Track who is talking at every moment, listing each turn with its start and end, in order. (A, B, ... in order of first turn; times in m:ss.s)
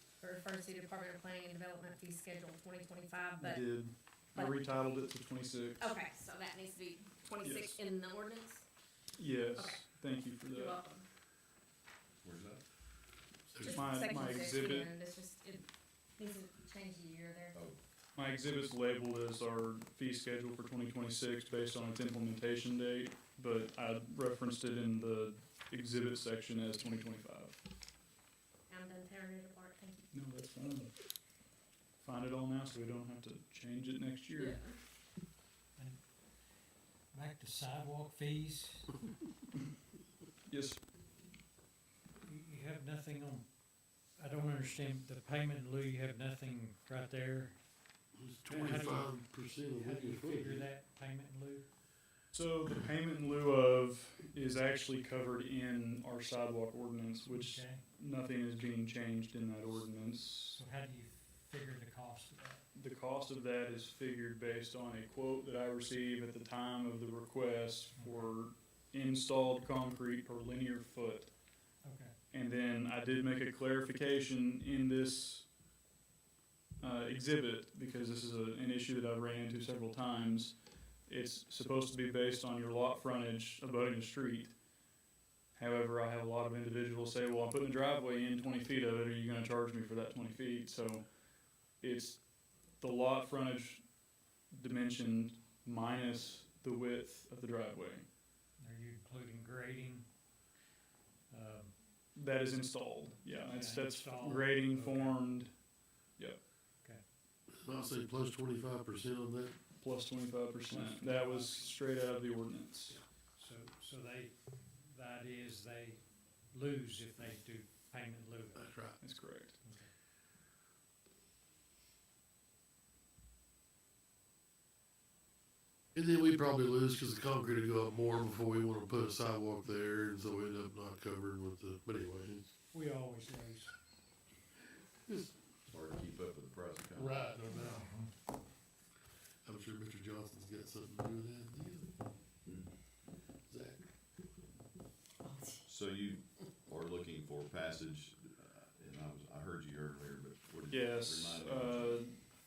0:00.2-0:03.6 A
0:03.4-0:05.9 B
0:05.8-0:08.6 A
0:07.4-0:07.8 B
0:09.2-0:10.8 B
0:09.6-0:09.8 A
0:10.5-0:11.0 A
0:12.2-0:12.6 C
0:13.5-0:14.1 D
0:13.6-0:17.6 A
0:13.7-0:14.9 B
0:18.1-0:27.6 B
0:28.7-0:30.1 A
0:30.1-0:30.9 B
0:32.0-0:34.6 B
0:34.3-0:34.7 A
0:35.8-0:36.0 E
0:37.1-0:39.0 E
0:40.5-0:40.8 B
0:42.2-0:43.5 E
0:44.1-0:47.6 E
0:48.1-0:50.7 D
0:48.5-0:51.7 E
0:52.3-1:00.6 B
0:57.2-0:57.8 E
1:00.5-1:02.6 E
1:02.7-1:11.3 B
1:07.9-1:08.3 E
1:11.8-1:12.1 E
1:12.3-1:15.5 B
1:16.8-1:24.5 B
1:25.5-1:31.1 B
1:31.6-1:32.2 B
1:32.8-1:33.8 B
1:34.5-1:38.0 B
1:38.6-1:40.1 E
1:41.3-1:41.8 E
1:42.1-1:45.6 B
1:43.3-1:45.4 E
1:46.1-1:46.4 B
1:47.5-1:49.6 D
1:49.8-1:53.0 B
1:50.7-1:51.8 E
1:52.9-1:58.8 E
1:58.5-1:59.1 D
1:59.0-1:59.6 B
1:59.6-1:59.9 E
2:05.9-2:12.5 D
2:12.7-2:13.7 E
2:15.1-2:15.3 D
2:15.7-2:17.3 C
2:16.9-2:18.0 D
2:17.5-2:18.1 E
2:19.4-2:21.9 D
2:23.5-2:23.9 D
2:25.2-2:25.6 A
2:25.6-2:32.0 C
2:30.7-2:32.2 B